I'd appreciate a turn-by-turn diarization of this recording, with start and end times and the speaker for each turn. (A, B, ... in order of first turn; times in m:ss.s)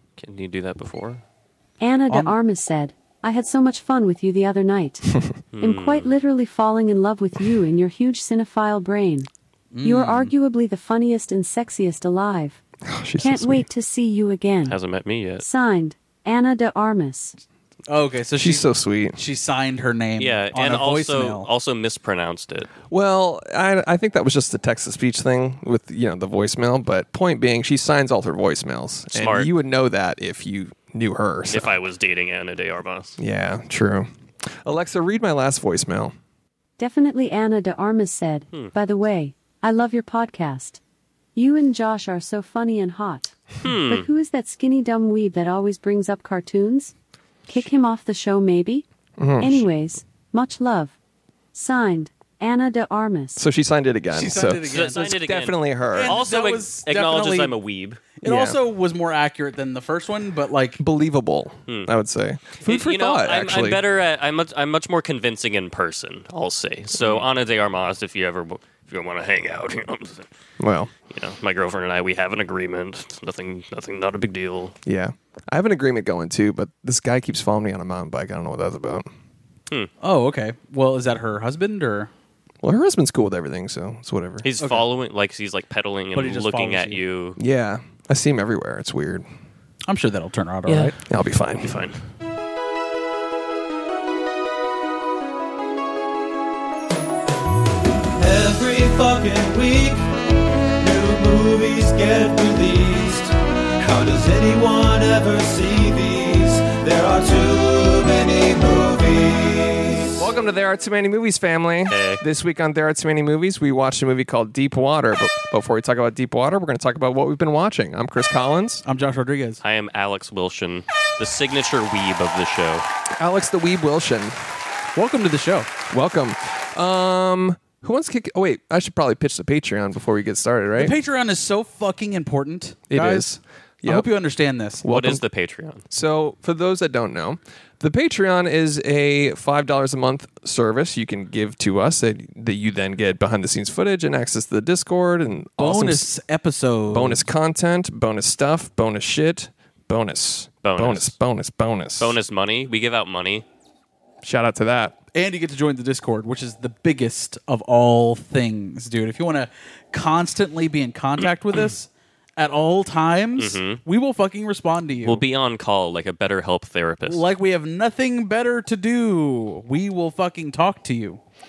0:00.2-0:01.2 A
0:01.8-0:09.3 B
0:05.5-0:06.1 A
0:09.7-0:10.3 C
0:09.8-0:12.6 B
0:12.8-0:13.7 D
0:13.2-0:14.8 B
0:14.7-0:15.4 A
0:15.4-0:17.4 B
0:17.9-0:21.5 C
0:18.4-0:19.2 D
0:20.2-0:22.7 A
0:22.9-0:31.8 D
0:29.1-0:29.5 A
0:31.5-0:33.2 A
0:33.2-0:36.1 D
0:36.8-0:40.8 B
0:41.3-0:46.9 B
0:43.6-0:44.1 A
0:47.4-0:48.8 B
0:49.2-0:49.6 D
0:49.4-0:51.0 B
0:51.5-0:53.4 B
0:53.4-0:56.2 D
0:54.1-0:55.0 C
0:54.7-0:58.0 A
0:55.9-0:57.6 C
0:58.2-1:00.8 C
0:58.2-0:58.6 D
1:00.8-1:03.8 D
1:01.7-1:01.9 A
1:02.6-1:10.3 A
1:10.6-1:10.9 D
1:11.1-1:14.8 A
1:14.9-1:19.1 D
1:20.0-1:22.1 C
1:22.6-1:24.5 D
1:24.4-1:27.4 A
1:26.1-1:27.0 C
1:27.4-1:29.2 D
1:29.8-1:31.0 C
1:30.7-1:30.9 A
1:31.1-1:31.9 D
1:31.6-1:32.0 A
1:38.2-1:40.0 E
1:40.8-1:50.2 E
1:50.2-1:58.8 D
1:51.9-1:52.2 A
1:58.8-1:59.6 C
1:59.6-2:02.9 A
2:03.2-2:04.4 D
2:04.9-2:05.7 C
2:05.9-2:10.9 D
2:10.8-2:14.8 C
2:12.9-2:14.1 D
2:14.8-2:15.2 D
2:14.9-2:15.8 A
2:15.9-2:26.1 D
2:25.6-2:27.2 C
2:26.9-2:32.2 D
2:30.6-2:31.1 A
2:32.0-2:33.4 A
2:34.2-2:35.0 D
2:35.1-2:45.2 C
2:43.4-2:43.8 A
2:45.0-2:47.3 A
2:47.1-2:51.2 C